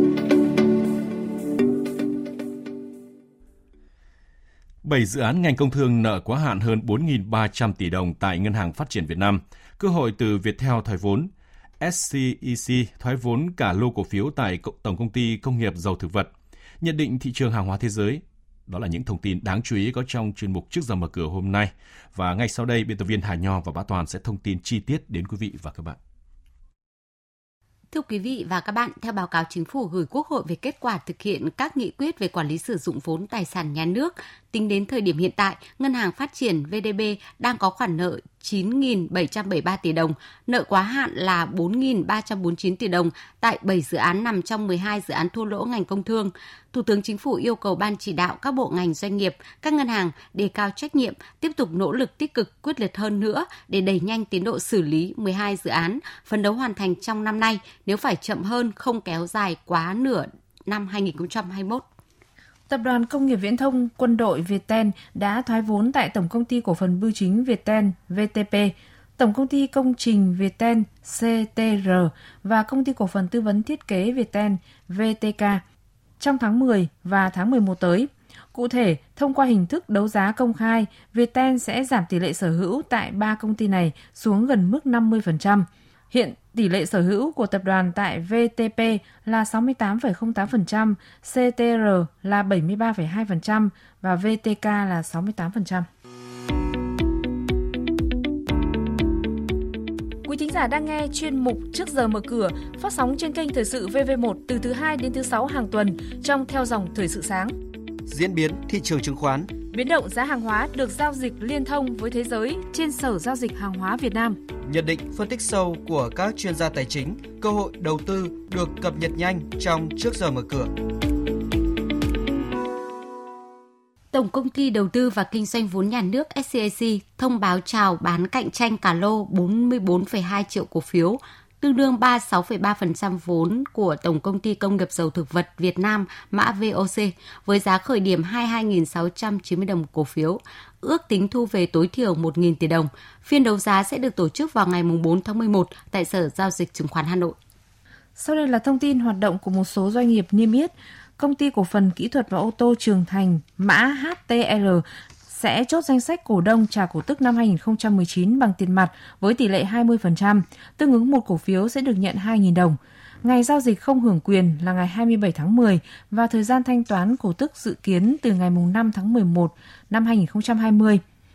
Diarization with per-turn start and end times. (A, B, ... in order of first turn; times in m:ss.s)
0:04.8-0:11.3 A
0:11.8-0:16.3 A
0:16.8-0:26.0 A
0:27.9-1:01.8 B
1:02.7-1:15.6 C
1:16.2-1:35.8 C
1:40.2-1:47.5 C
1:48.1-1:49.5 D
1:49.7-1:54.4 C
1:54.6-2:00.7 D
2:04.1-2:27.4 B
2:28.2-2:51.0 C